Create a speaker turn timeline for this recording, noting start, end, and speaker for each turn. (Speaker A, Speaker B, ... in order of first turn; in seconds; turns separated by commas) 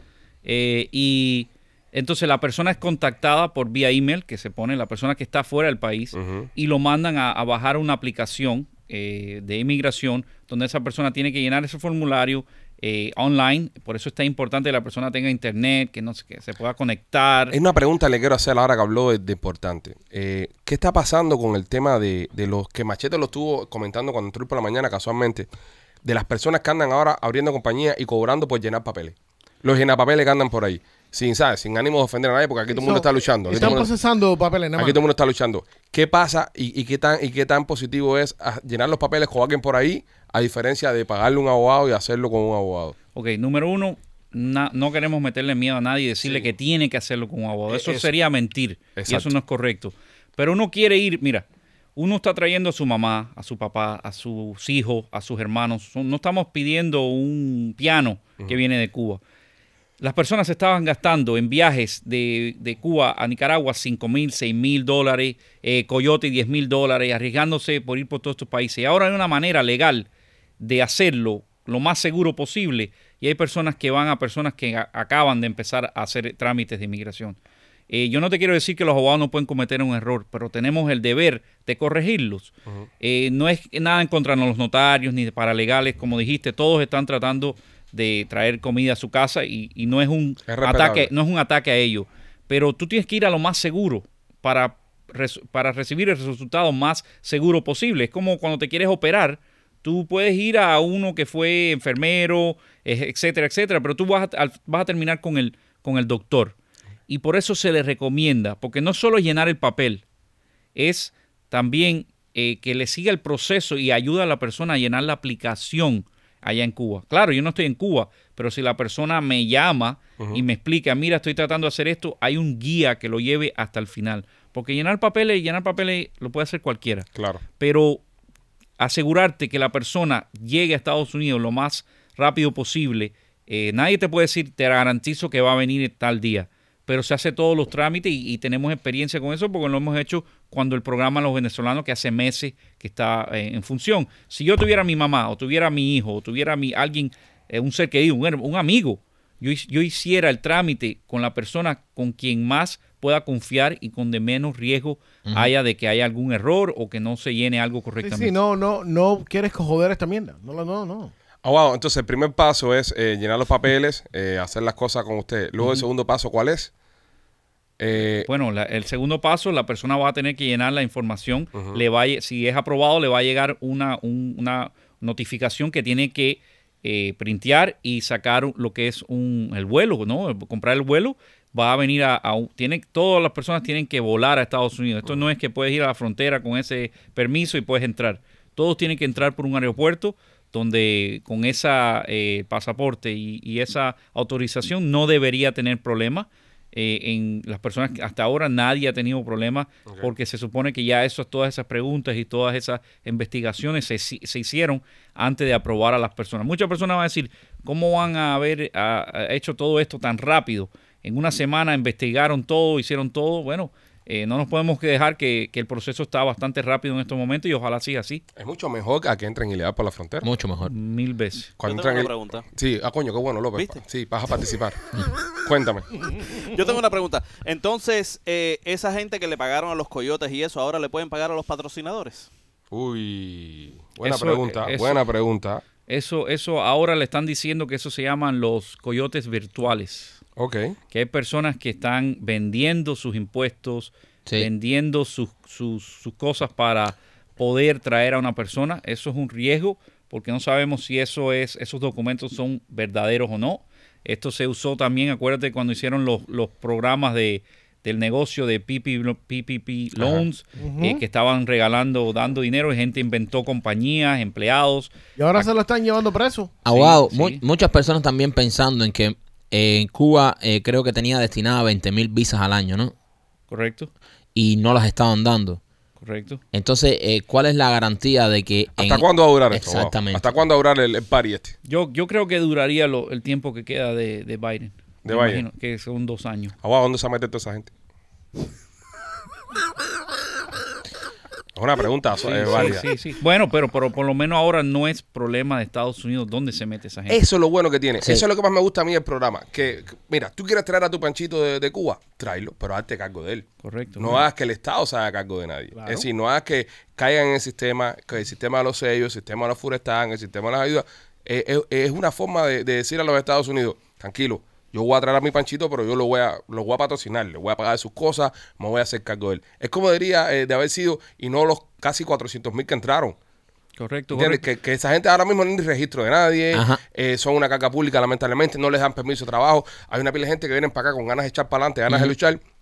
Speaker A: 0.4-17.6, Speaker B: 6.1-6.5, Speaker B: 17.5-25.5, Speaker B: 26.0-33.9, Speaker C: 32.7-35.0, Speaker B: 34.8-43.0, Speaker A: 43.1-51.4, Speaker B: 47.7-48.1, Speaker B: 49.0-49.3, Speaker A: 52.0-59.2, Speaker A: 60.0-70.1, Speaker A: 70.6-77.4, Speaker A: 77.9-106.5, Speaker B: 90.5-91.1, Speaker A: 107.1-110.0, Speaker A: 110.8-127.1, Speaker B: 127.2-127.4, Speaker A: 127.6-128.0, Speaker A: 128.8-158.3, Speaker D: 155.2-155.5, Speaker C: 158.0-161.1, Speaker B: 161.4-166.7, Speaker B: 167.8-168.3, Speaker A: 168.0-218.2, Speaker B: 171.5-171.8, Speaker B: 218.4-220.3, Speaker D: 220.2-220.7, Speaker A: 220.7-221.5, Speaker B: 221.6-224.8, Speaker E: 221.6-222.4, Speaker B: 225.4-226.0, Speaker E: 226.1-232.3, Speaker B: 232.7-235.6, Speaker A: 234.0-235.0, Speaker A: 235.9-240.2, Speaker B: 240.4-240.8, Speaker A: 240.9-265.5, Speaker C: 260.6-261.0, Speaker C: 265.2-266.5, Speaker D: 266.6-272.9, Speaker A: 266.6-267.4, Speaker A: 273.5-273.9, Speaker D: 274.3-275.6, Speaker A: 276.0-276.4, Speaker D: 276.5-280.3, Speaker B: 278.8-281.6, Speaker A: 281.7-286.5, Speaker B: 285.0-285.4, Speaker B: 286.6-287.7, Speaker B: 291.6-292.8, Speaker A: 292.2-297.2, Speaker B: 297.1-303.5, Speaker D: 298.0-298.2, Speaker A: 303.6-304.2, Speaker B: 304.0-323.2, Speaker C: 305.8-306.0, Speaker A: 323.8-324.4, Speaker B: 324.1-332.4, Speaker D: 326.5-326.8, Speaker D: 331.9-332.1